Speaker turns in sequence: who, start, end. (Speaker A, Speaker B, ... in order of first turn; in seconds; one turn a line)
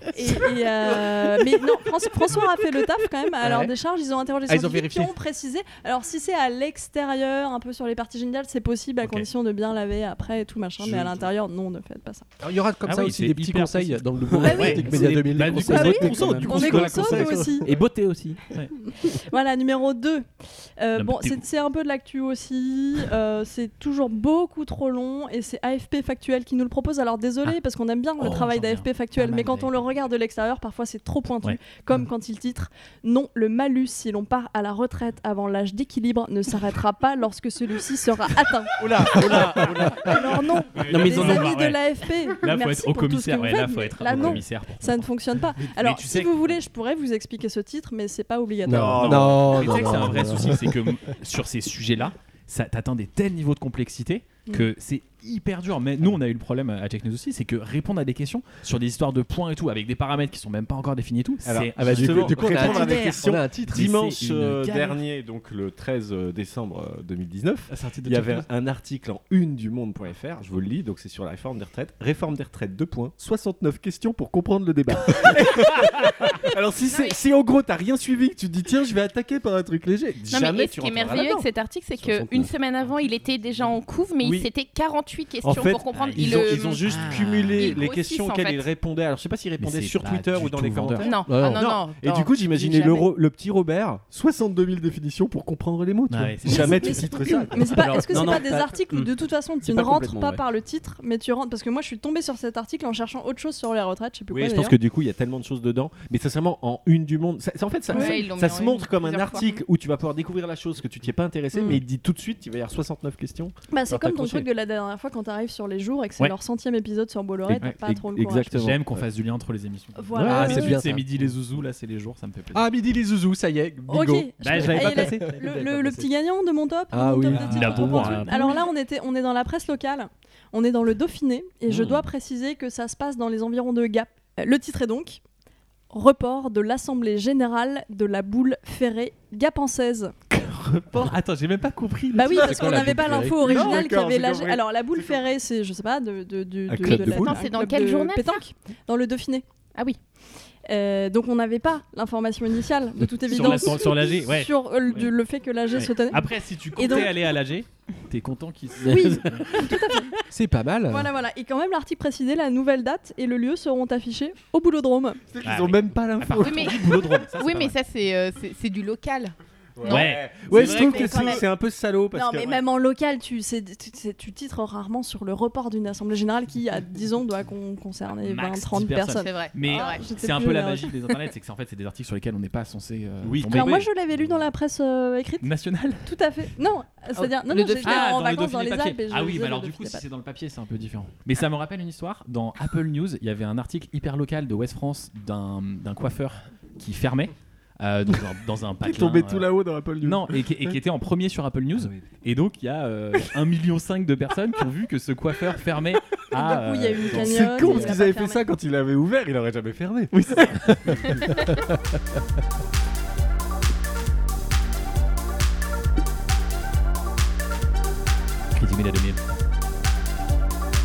Speaker A: 0.1-12.3
Speaker B: 4.5-5.1
Speaker B: 12.4-17.6
Speaker C: 12.8-17.4
Speaker D: 14.4-16.9
Speaker A: 14.4-14.9
Speaker A: 15.7-17.7
Speaker E: 16.6-17.4
Speaker D: 17.6-18.4
Speaker A: 19.0-20.3
Speaker A: 20.8-49.6
Speaker C: 20.9-21.4
Speaker C: 28.2-29.7
Speaker E: 38.8-39.7
Speaker C: 38.8-40.2
Speaker C: 40.7-46.5
Speaker D: 40.9-41.6
Speaker E: 44.1-44.4
Speaker B: 48.6-50.7
Speaker E: 48.7-50.2
Speaker C: 49.0-63.1
Speaker E: 61.5-81.5
Speaker B: 61.8-64.0
Speaker C: 63.8-65.0
Speaker C: 67.7-68.5
Speaker F: 76.8-77.2
Speaker F: 80.3-86.9
Speaker E: 84.2-84.5
Speaker E: 85.4-98.0
Speaker C: 85.9-87.8
Speaker F: 87.5-88.7
Speaker C: 89.6-91.2
Speaker F: 91.0-93.1
Speaker B: 91.3-91.7
Speaker C: 96.1-97.1
Speaker A: 96.5-104.8
Speaker D: 97.6-99.1
Speaker D: 99.6-100.4
Speaker E: 104.3-114.4
Speaker F: 107.9-109.5
Speaker A: 107.9-108.2
Speaker A: 109.3-109.6
Speaker A: 111.5-111.8
Speaker A: 113.7-118.5
Speaker E: 117.5-119.0
Speaker C: 118.5-122.7
Speaker A: 120.0-120.8
Speaker B: 120.2-121.3
Speaker B: 122.5-125.2
Speaker A: 123.9-135.2
Speaker C: 124.4-126.0
Speaker B: 126.9-128.5
Speaker C: 127.3-128.6
Speaker A: 135.9-140.1
Speaker C: 140.9-142.9
Speaker A: 142.1-149.4
Speaker B: 142.3-143.7
Speaker E: 142.5-142.8
Speaker E: 143.3-145.2
Speaker E: 146.7-147.3
Speaker F: 147.0-148.4
Speaker A: 150.7-157.1
Speaker C: 153.3-155.1
Speaker C: 155.8-159.7
Speaker D: 158.8-159.2
Speaker A: 158.8-160.1
Speaker B: 160.3-161.1
Speaker A: 160.9-165.2
Speaker E: 165.3-167.2
Speaker C: 165.4-167.7
Speaker F: 166.4-171.4
Speaker E: 169.8-172.6
Speaker C: 169.8-171.4
Speaker B: 170.5-170.8
Speaker A: 170.7-171.4
Speaker A: 172.1-180.9
Speaker C: 178.2-184.4
Speaker F: 179.1-180.0
Speaker E: 183.2-183.8
Speaker A: 183.5-185.5
Speaker C: 185.4-186.1
Speaker A: 186.0-190.0
Speaker C: 187.1-199.5
Speaker E: 198.8-200.3
Speaker C: 200.0-207.9
Speaker E: 201.8-202.0
Speaker A: 206.3-208.5
Speaker E: 207.1-211.5
Speaker C: 210.2-211.2
Speaker C: 218.5-219.2